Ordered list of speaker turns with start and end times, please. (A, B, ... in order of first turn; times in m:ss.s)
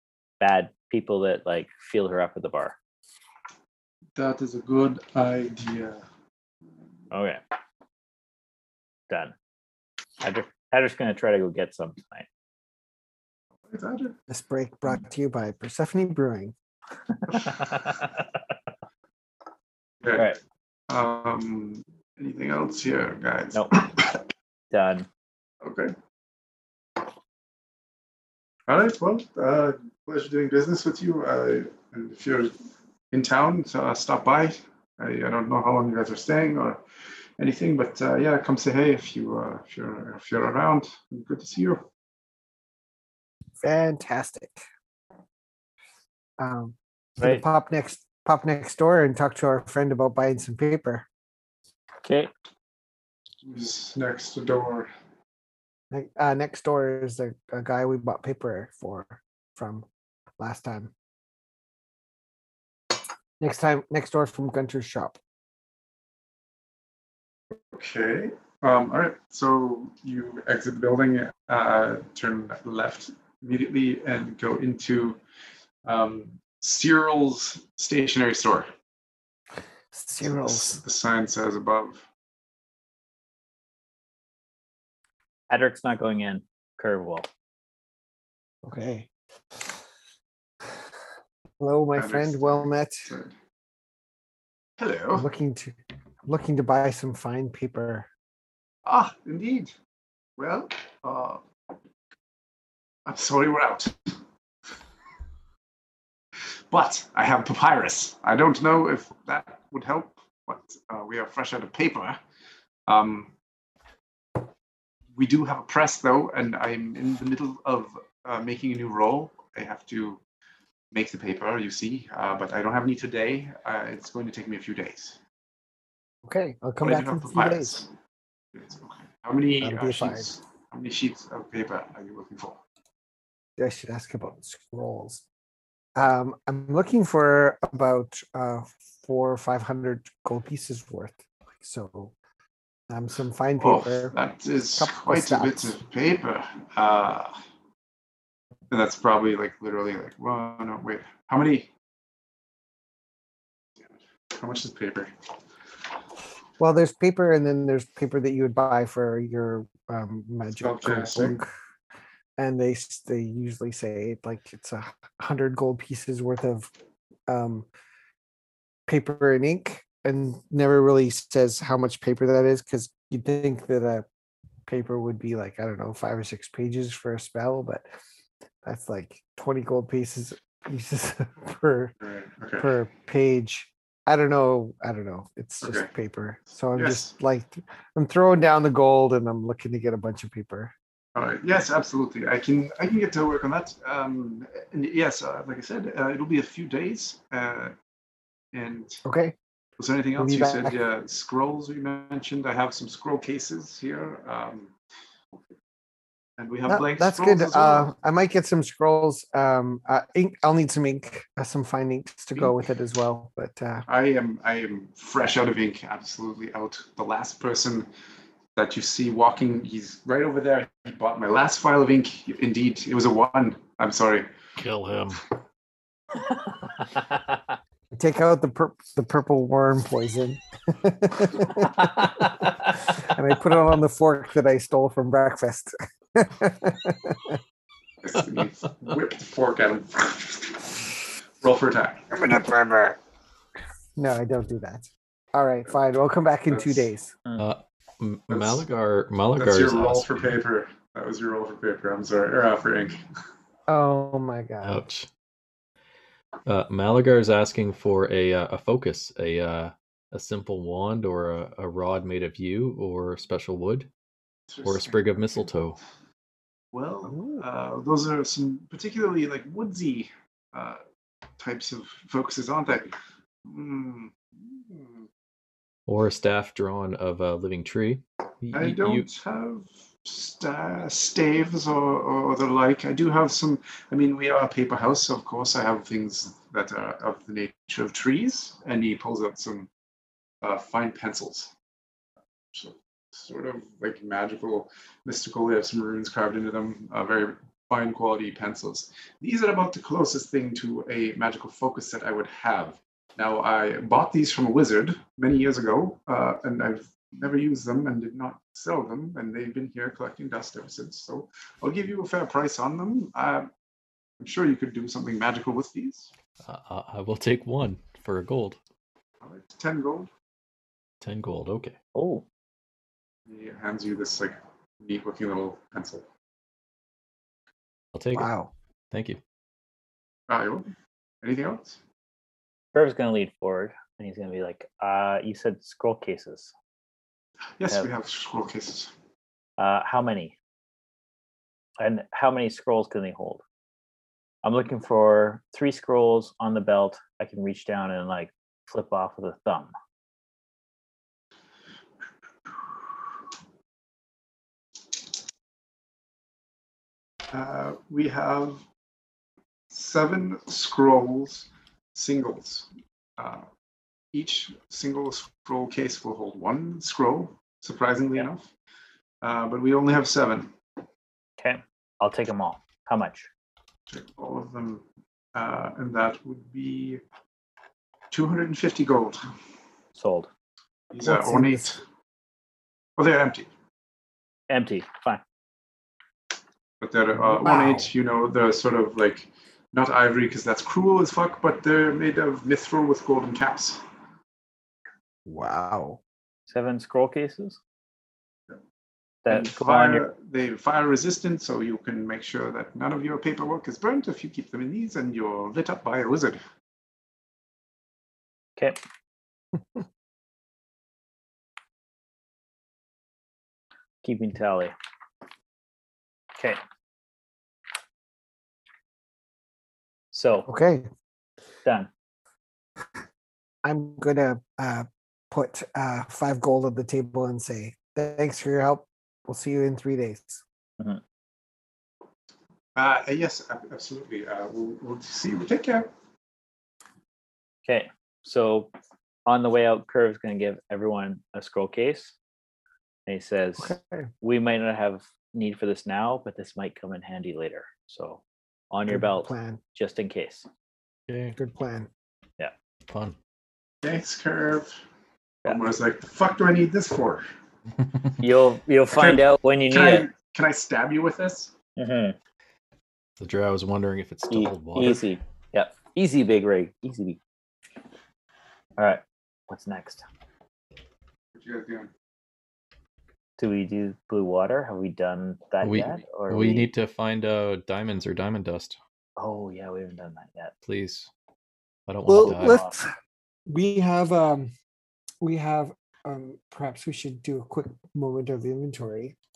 0:00.4-0:02.8 A
0:04.2-0:06.0 B
0:07.1-0:07.4 A
0:09.1-0:09.3 A
0:10.2-0:12.3 A
0:13.7-0:14.1 B
0:14.3-0:16.5 C
0:17.1-0:18.2 A
0:20.0-0:20.4 B
0:20.9-0:24.1 B
0:23.5-0:23.9 A
0:24.7-0:25.1 A
0:25.6-0:25.9 B
0:28.7-0:32.5 B
0:33.1-0:36.8 B
0:37.4-0:41.8 B
0:43.6-0:44.6 C
0:46.4-0:51.1 C
0:52.0-0:52.3 A
0:53.4-0:54.9 B
0:55.9-0:59.8 C
1:00.4-1:00.9 C
1:03.4-1:05.2 C
1:07.7-1:15.2 B
1:15.8-1:18.7 B
1:19.9-1:20.8 C
1:20.2-1:22.0 B
1:25.5-1:27.3 A
1:28.6-1:29.7 C
1:31.6-1:33.1 C
1:32.0-1:33.3 B
1:34.8-1:35.2 B
1:35.1-1:35.7 C
1:36.3-1:38.1 C
1:38.8-1:39.7 B
1:40.4-1:41.4 B
1:43.0-1:44.2 B
1:46.7-1:52.2 B
1:52.9-1:53.3 B
1:55.1-2:00.2 B
2:00.9-2:05.2 B
2:06.2-2:07.8 C
2:06.8-2:07.9 B
2:08.5-2:12.6 B
2:09.6-2:10.3 C
2:13.6-2:15.2 C
2:16.0-2:22.1 C
2:22.9-2:24.2 C
2:23.6-2:27.4 B
2:24.8-2:25.7 C
2:28.7-2:31.7 B
2:34.3-2:35.1 B
2:36.6-2:41.5 C
2:40.6-2:41.4 B
2:42.4-2:46.7 C
2:47.3-2:47.6 C
2:48.9-2:54.0 C
2:54.7-2:57.8 C
2:58.6-3:01.9 C
3:02.0-3:02.7 B
3:02.6-3:10.7 C
3:05.6-3:05.9 B
3:06.8-3:07.1 B
3:11.1-3:17.7 B
3:18.5-3:19.0 B
3:19.0-3:19.3 C
3:19.8-3:24.7 B
3:20.2-3:20.8 C
3:26.4-3:27.9 B
3:26.7-3:33.8 C
3:33.9-3:37.9 B
3:38.5-3:44.3 B
3:44.6-3:45.2 D
3:46.3-3:47.6 A
3:47.9-3:52.0 C
3:52.9-3:57.4 C
3:58.0-4:00.8 B
4:01.4-4:02.3 B
4:02.1-4:03.0 C
4:04.0-4:07.1 C
4:06.5-4:06.9 B
4:07.4-4:10.4 D
4:08.3-4:08.6 B
4:09.4-4:13.0 B
4:13.7-4:14.8 C
4:14.6-4:15.1 D
4:16.4-4:23.9 D
4:24.5-4:25.4 B
4:24.6-4:25.8 D
4:26.7-4:30.8 B
4:27.1-4:27.4 C
4:31.4-4:35.0 B
4:35.9-4:39.0 D
4:38.5-4:49.7 B
4:50.4-4:51.5 B
4:52.5-5:13.5 B
5:14.2-5:16.1 B
5:16.4-5:18.6 D
5:19.2-5:20.1 B
5:21.0-5:21.8 D
5:21.9-5:22.2 A
5:23.3-5:26.0 B
5:27.9-5:28.3 D
5:28.1-5:28.5 C
5:28.9-5:29.2 D
5:30.3-5:30.7 B
5:31.2-5:31.8 B
5:32.7-5:36.5 A
5:37.6-5:38.9 B
5:39.6-5:40.3 A
5:41.8-5:43.4 A
5:44.4-5:49.7 A
5:57.3-5:58.6 B
5:59.7-6:03.5 B
6:04.1-6:08.5 B
6:09.2-6:10.5 B
6:11.4-6:13.3 A
6:13.9-6:14.8 B
6:15.3-6:17.0 B
6:18.1-6:19.3 B
6:20.0-6:20.3 A
6:20.9-6:21.8 B
6:21.0-6:21.8 C
6:23.0-6:23.5 B
6:24.5-6:25.2 A
6:26.8-6:33.8 B
6:27.3-6:27.9 C
6:35.2-6:36.0 C
6:36.5-6:37.6 A
6:39.2-6:40.0 A
6:39.3-6:46.4 B
6:54.0-6:54.7 A
7:00.1-7:00.5 A
7:00.5-7:00.9 C
7:01.6-7:01.9 A
7:03.6-7:10.4 C
7:12.8-7:15.9 B
7:17.6-7:18.7 A
7:19.2-7:22.1 A
7:23.0-7:30.5 A
7:23.6-7:24.1 C
7:28.9-7:29.6 C
7:31.1-7:31.4 D
7:31.3-7:31.9 C
7:32.9-7:33.2 D
7:33.8-7:34.8 B
7:35.4-7:37.2 B
7:38.2-7:40.1 A
7:38.9-7:41.5 B
7:41.8-7:42.2 A
7:43.2-7:45.0 D
7:44.3-7:47.2 A
7:48.8-7:50.0 A
7:51.3-7:51.9 B
7:53.4-7:56.7 A
7:55.6-7:58.8 D
7:59.2-8:00.5 A
8:00.6-8:01.1 D
8:01.9-8:02.6 D
8:02.0-8:02.9 C
8:02.2-8:02.7 A
8:03.5-8:04.5 C
8:05.2-8:09.2 C